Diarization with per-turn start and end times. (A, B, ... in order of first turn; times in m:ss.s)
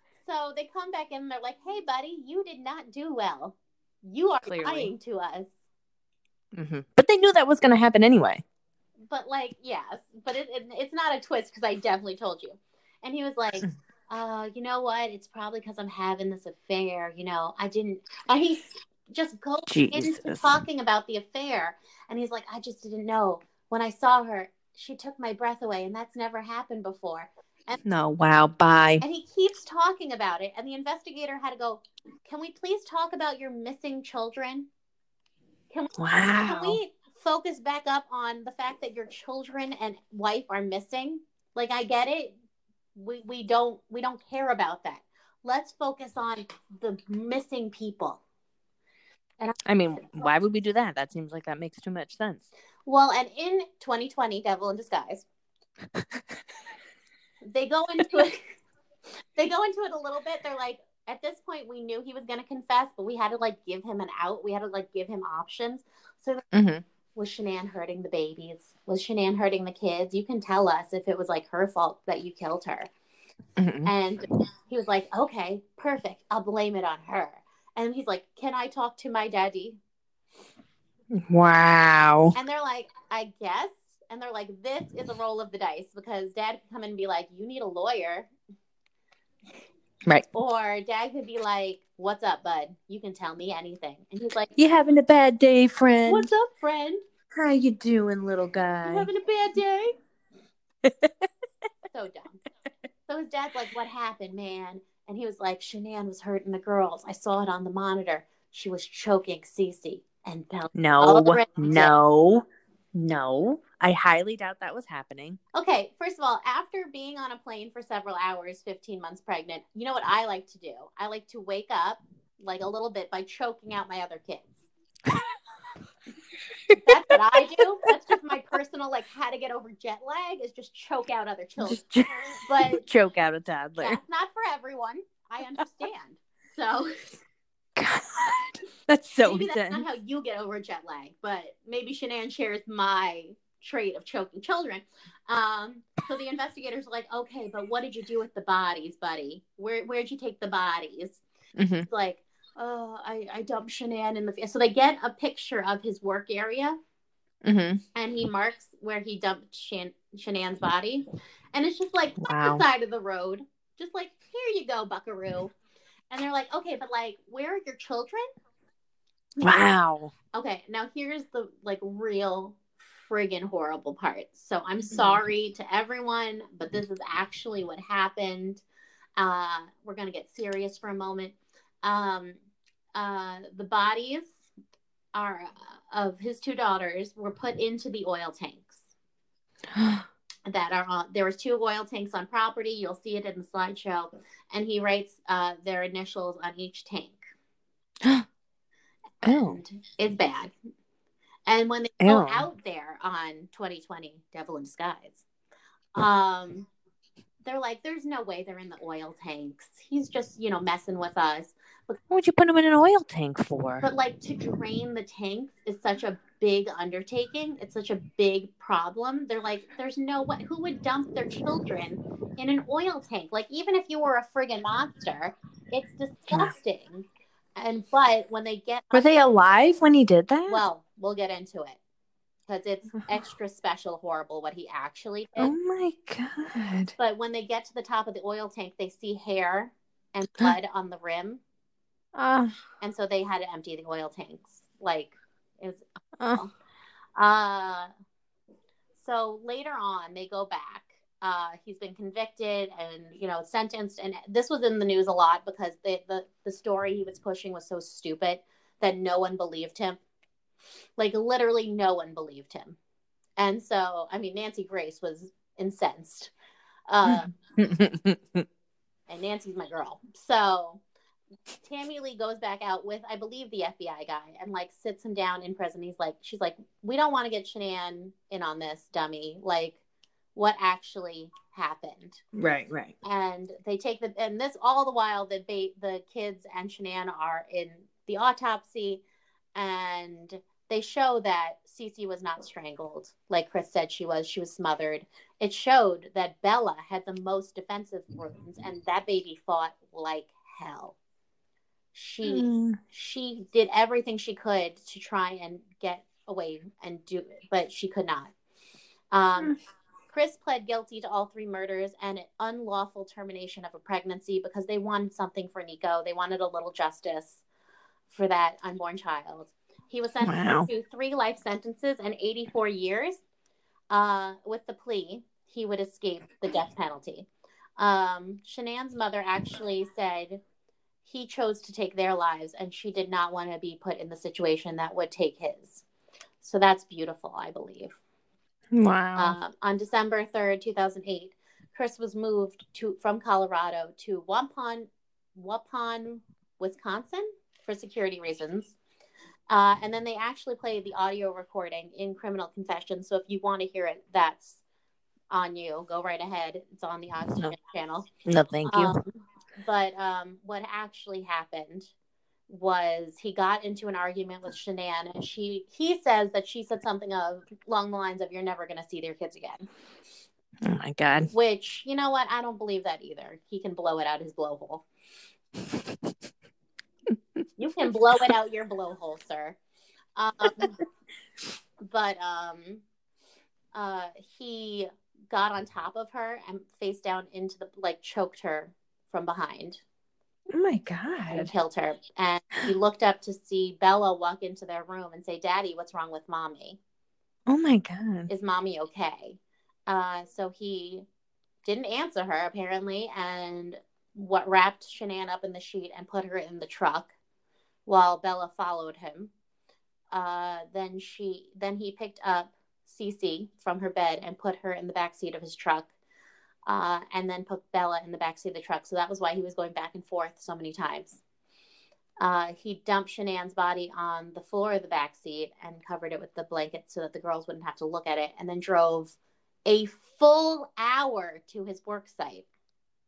0:00.2-0:05.5 A
0:04.5-0:04.9 B
0:06.5-0:08.4 B
0:09.1-0:27.8 A
0:19.7-0:20.6 B
0:27.8-0:29.0 B
0:29.0-0:34.7 A
0:35.7-0:42.4 A
0:36.0-0:36.8 B
0:43.0-0:48.2 A
0:49.4-0:50.3 A
0:49.7-0:52.5 B
0:52.9-0:55.3 A
0:57.4-0:58.5 A
0:59.4-1:06.4 A
1:06.5-1:06.8 B
1:07.2-1:12.9 A
1:13.6-1:13.9 B
1:13.8-1:19.8 A
1:21.1-1:22.3 B
1:22.4-1:28.3 A
1:30.3-1:34.5 A
1:34.6-1:36.3 B
1:36.1-1:37.0 A
1:37.3-1:39.1 B
1:38.8-1:40.0 A
1:40.8-1:41.3 B
1:41.9-1:42.4 A
1:43.1-1:51.9 A
1:50.8-1:55.4 B
1:55.5-2:04.5 A
2:06.8-2:12.8 A
2:11.6-2:14.0 B
2:13.8-2:17.2 A
2:17.8-2:19.9 B
2:19.2-2:31.2 A
2:31.6-2:31.9 B
2:31.9-2:36.8 A
2:37.4-2:37.8 B
2:38.0-2:45.5 A
2:42.2-2:42.6 B
2:46.1-2:48.2 A
2:49.4-2:50.1 B
2:50.3-2:58.6 A
2:59.2-3:02.4 A
3:03.0-3:04.4 A
3:05.1-3:08.8 A
3:09.7-3:10.0 B
3:10.5-3:17.3 A
3:19.2-3:19.6 B
3:19.4-3:20.5 A
3:21.5-3:25.2 A
3:22.0-3:22.5 B
3:26.0-3:26.7 A
3:27.4-3:32.0 A
3:32.1-3:33.9 B
3:33.8-3:47.1 A
3:47.6-3:49.1 A
3:48.9-3:50.6 B
3:50.5-3:51.8 A
3:52.5-3:55.6 A
3:55.4-3:56.9 B
3:57.0-4:01.4 A
4:02.2-4:02.6 B
4:02.8-4:05.8 A
4:07.2-4:07.9 A
4:09.0-4:20.0 A
4:21.0-4:22.8 A
4:23.4-4:26.3 A
4:26.9-4:27.3 A
4:27.1-4:28.5 B
4:29.1-4:30.8 A
4:31.6-4:39.8 A
4:40.4-4:42.2 A
4:42.4-4:42.9 B
4:43.0-4:49.0 A
4:49.6-5:01.0 A
5:01.9-5:08.3 A
5:02.2-5:02.8 B
5:09.1-5:09.5 A
5:10.1-5:17.4 A
5:18.1-5:23.2 A
5:20.2-5:20.7 B
5:23.9-5:27.3 A
5:27.8-5:30.4 A
5:31.0-5:35.8 A
5:36.4-5:38.0 A
5:38.7-5:39.4 B
5:39.2-5:48.8 A
5:49.5-5:54.6 A
5:55.3-5:58.1 A
5:58.2-5:59.0 B
5:58.7-6:01.9 A
6:02.5-6:09.7 A
6:10.6-6:11.3 B
6:11.3-6:14.8 A
6:17.6-6:19.6 A
6:20.2-6:20.7 A
6:21.8-6:22.8 A
6:23.7-6:29.8 A
6:30.5-6:31.5 B
6:31.3-6:36.8 A
6:37.5-6:38.3 B
6:38.3-6:41.1 A
6:41.6-6:47.1 A
6:47.9-6:49.3 A
6:50.1-6:55.9 A
6:56.7-7:01.2 A
7:02.2-7:12.5 A